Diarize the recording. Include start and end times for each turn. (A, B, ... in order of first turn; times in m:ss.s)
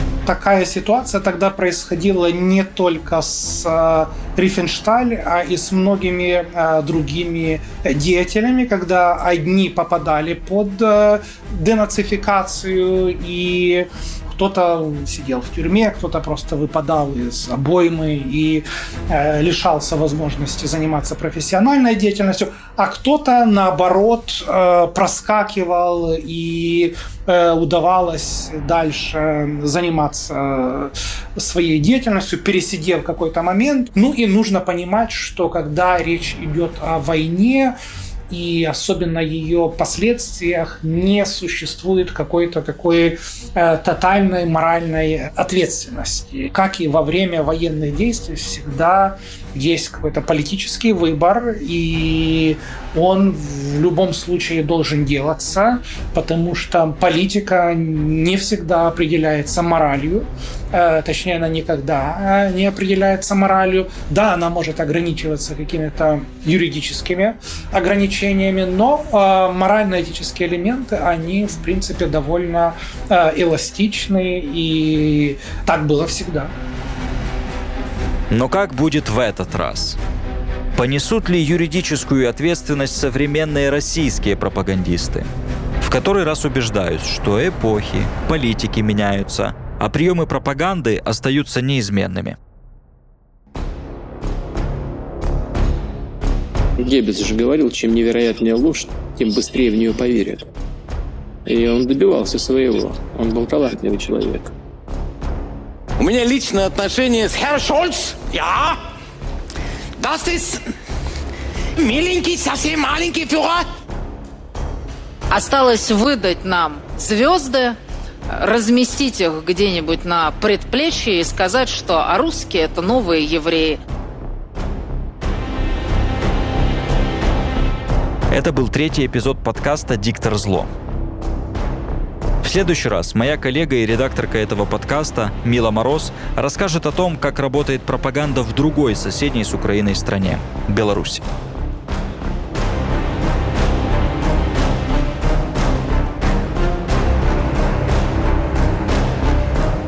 0:00.2-0:37.8 A
0:38.3-1:16.5 A
1:18.3-1:20.0 B
1:20.7-1:25.3 B
1:25.8-1:32.4 B
1:36.8-1:40.4 C
1:41.4-1:44.5 C
1:46.0-1:48.7 D
1:50.0-1:50.4 D
1:51.8-1:53.5 D
1:55.3-1:57.8 E
1:58.4-2:03.8 E
2:08.3-2:10.7 B
2:12.4-2:21.2 B